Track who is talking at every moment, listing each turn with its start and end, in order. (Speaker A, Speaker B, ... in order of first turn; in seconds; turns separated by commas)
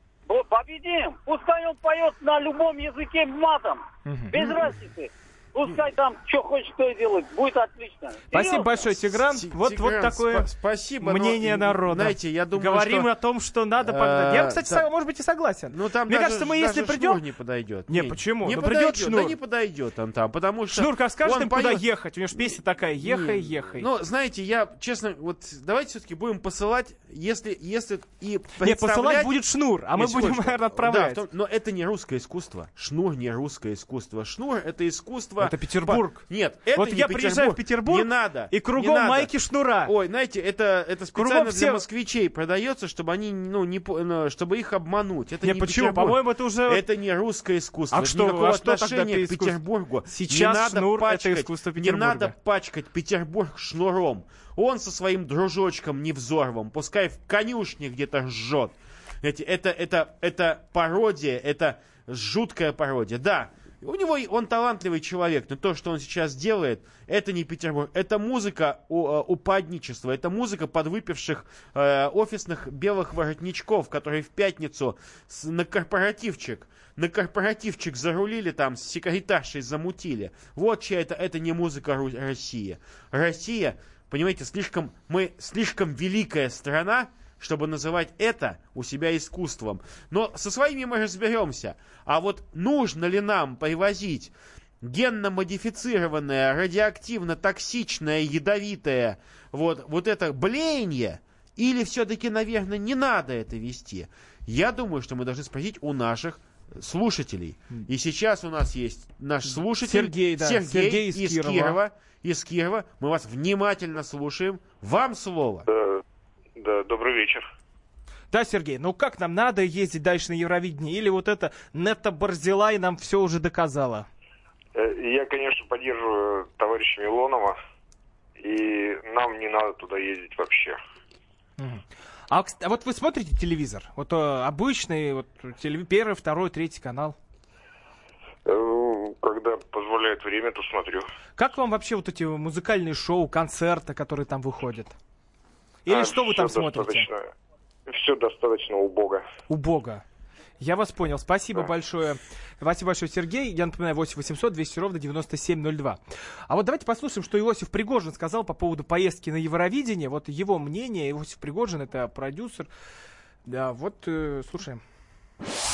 Speaker A: 0.3-8.8, Speaker B: 4.1-4.4, Speaker B: 8.3-10.5, Speaker C: 9.1-13.1, Speaker B: 11.0-17.2, Speaker C: 13.8-14.9, Speaker C: 15.7-21.9, Speaker B: 17.9-19.4, Speaker B: 20.7-23.9, Speaker C: 22.4-29.4, Speaker B: 28.6-31.2, Speaker C: 29.9-115.7, Speaker B: 35.4-39.9, Speaker B: 41.1-41.8, Speaker B: 45.4-46.8, Speaker B: 47.9-52.3, Speaker B: 109.5-111.8, Speaker D: 115.7-116.0, Speaker D: 116.6-117.4, Speaker B: 118.3-124.1, Speaker D: 124.8-127.6, Speaker D: 128.4-130.8, Speaker B: 131.6-137.2, Speaker D: 138.5-141.1, Speaker B: 141.4-145.0, Speaker B: 145.9-147.1, Speaker D: 145.9-147.3, Speaker D: 147.9-149.2, Speaker B: 149.5-150.0, Speaker B: 150.6-162.7, Speaker B: 163.5-164.8